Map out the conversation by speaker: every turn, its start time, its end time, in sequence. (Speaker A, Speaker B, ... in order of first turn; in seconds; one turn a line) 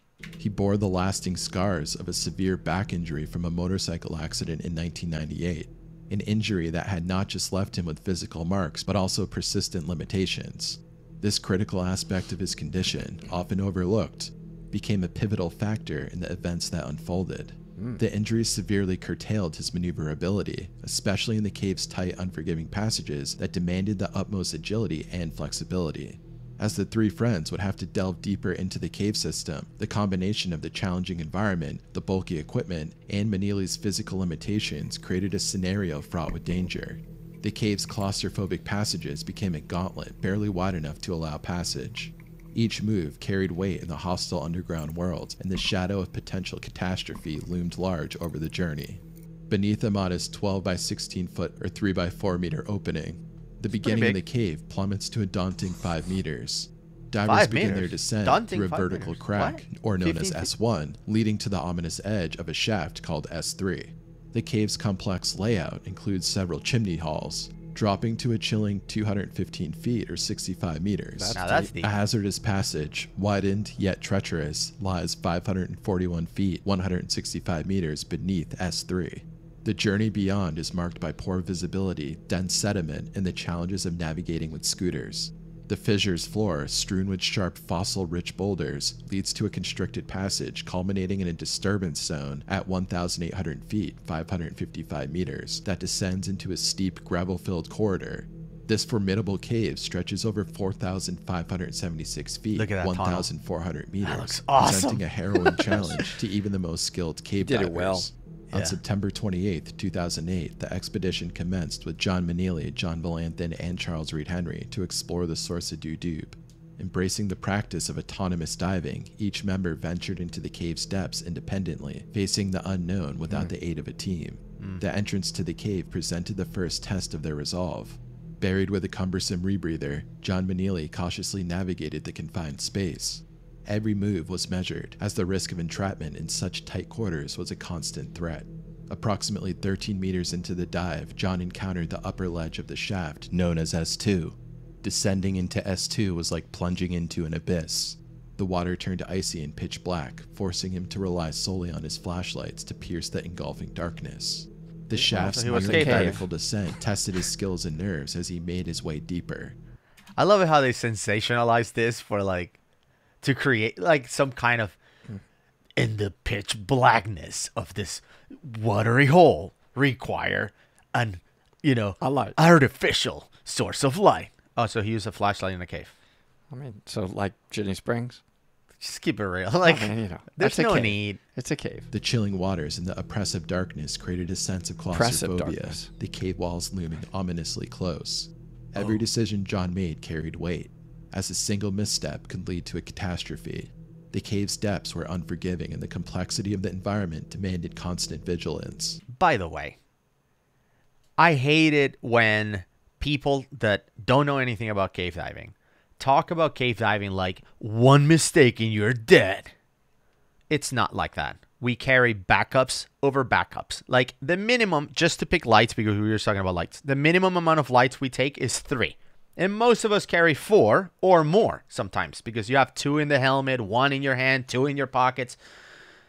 Speaker A: 0.4-159.6
Speaker B: 53.8-54.2
Speaker B: 57.3-60.5
Speaker C: 71.2-71.7
Speaker B: 71.3-71.9
Speaker B: 102.5-103.3
Speaker B: 104.0-106.1
Speaker C: 107.4-108.1
Speaker B: 108.5-108.8
Speaker B: 155.0-156.2
Speaker C: 155.1-156.2
Speaker B: 160.2-162.6
Speaker B: 163.2-164.8
Speaker B: 165.8-175.9
Speaker C: 172.0-172.4
Speaker C: 176.5-178.2
Speaker B: 178.8-181.2
Speaker C: 179.6-181.9
Speaker A: 181.9-199.0
Speaker C: 184.9-185.9
Speaker B: 199.1-199.8
Speaker B: 201.2-209.5
Speaker B: 210.5-225.4